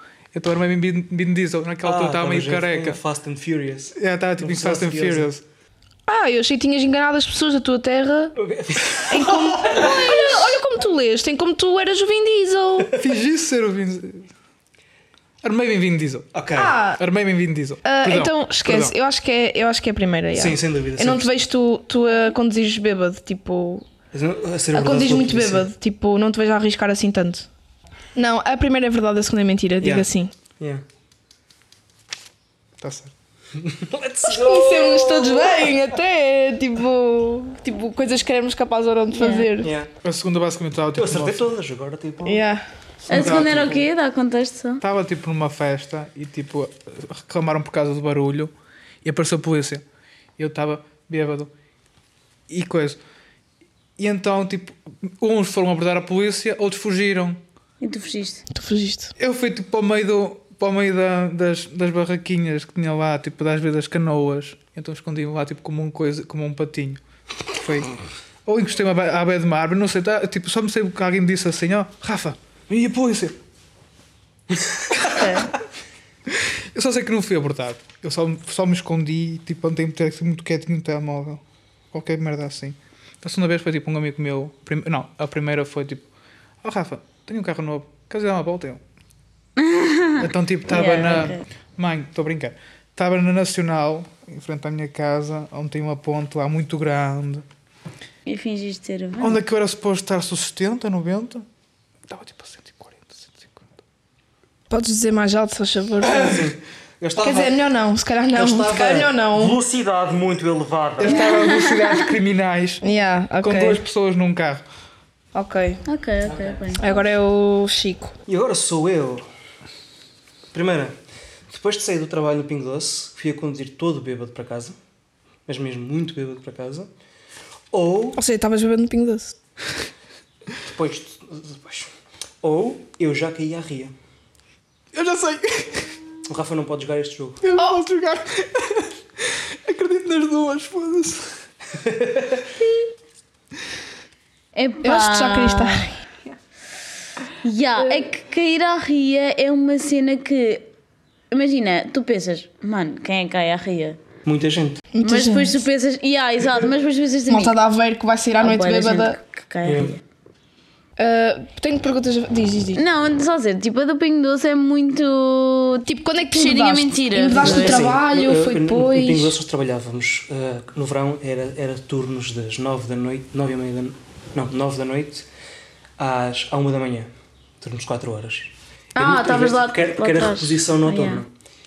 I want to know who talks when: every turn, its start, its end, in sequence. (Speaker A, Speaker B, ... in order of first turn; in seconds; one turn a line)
Speaker A: 0.3-3.0
Speaker B: 1.8-5.3
Speaker A: 4.0-5.4
Speaker C: 6.1-8.4
Speaker B: 8.4-10.4
Speaker C: 9.1-12.9
Speaker B: 12.8-13.0
Speaker A: 13.0-14.3
Speaker A: 15.4-16.3
Speaker B: 16.3-16.8
Speaker C: 16.5-17.0
Speaker A: 16.9-18.9
Speaker C: 17.9-23.9
Speaker B: 20.4-21.4
Speaker B: 24.1-25.7
Speaker C: 24.7-27.5
Speaker C: 28.1-30.3
Speaker B: 29.8-30.1
Speaker A: 32.8-33.1
Speaker B: 33.6-35.8
Speaker C: 34.3-39.7
Speaker D: 39.2-39.5
Speaker B: 39.6-39.9
Speaker A: 40.0-41.5
Speaker B: 41.0-42.5
Speaker C: 42.2-42.6
Speaker B: 43.1-43.9
Speaker D: 43.1-44.8
Speaker A: 43.1-43.8
Speaker A: 44.8-48.5
Speaker A: 49.0-49.8
Speaker A: 50.4-51.5
Speaker A: 52.5-53.0
Speaker A: 54.0-57.4
Speaker D: 57.8-58.5
Speaker C: 58.5-59.1
Speaker A: 59.2-67.0
Speaker A: 67.5-67.9
Speaker A: 68.5-73.4
Speaker D: 75.0-75.5
Speaker A: 76.3-81.4
Speaker A: 81.9-86.1
Speaker A: 86.6-88.8
Speaker D: 89.6-91.5
Speaker A: 90.2-97.5
Speaker D: 98.3-99.4
Speaker A: 99.2-101.5
Speaker A: 102.1-103.7
Speaker C: 104.7-106.5
Speaker B: 106.0-107.6
Speaker C: 107.2-109.6
Speaker B: 108.3-111.5
Speaker A: 111.0-112.8
Speaker D: 111.2-112.0
Speaker C: 112.8-113.8
Speaker A: 113.4-114.6
Speaker C: 115.3-115.8
Speaker D: 115.9-116.9
Speaker B: 116.3-116.6
Speaker C: 116.8-118.1
Speaker B: 118.3-119.2
Speaker B: 120.5-121.0
Speaker B: 121.5-124.8
Speaker B: 125.5-126.9
Speaker B: 127.7-128.2
Speaker C: 128.2-129.3
Speaker B: 130.6-131.9
Speaker B: 132.4-133.9
Speaker A: 134.9-135.9
Speaker B: 136.3-137.4
Speaker A: 137.4-141.4
Speaker B: 141.8-142.5
Speaker D: 144.6-145.9
Speaker C: 144.8-146.0
Speaker D: 147.4-150.7
Speaker D: 151.3-154.0
Speaker B: 154.2-154.9
Speaker C: 154.9-155.6
Speaker D: 155.0-157.5
Speaker C: 157.3-159.2
Speaker D: 158.4-160.0
Speaker B: 159.7-159.9
Speaker C: 161.0-162.8
Speaker D: 162.8-167.8
Speaker C: 165.9-169.4
Speaker B: 167.4-175.3
Speaker B: 176.0-177.1
Speaker B: 177.6-181.3
Speaker D: 179.0-181.2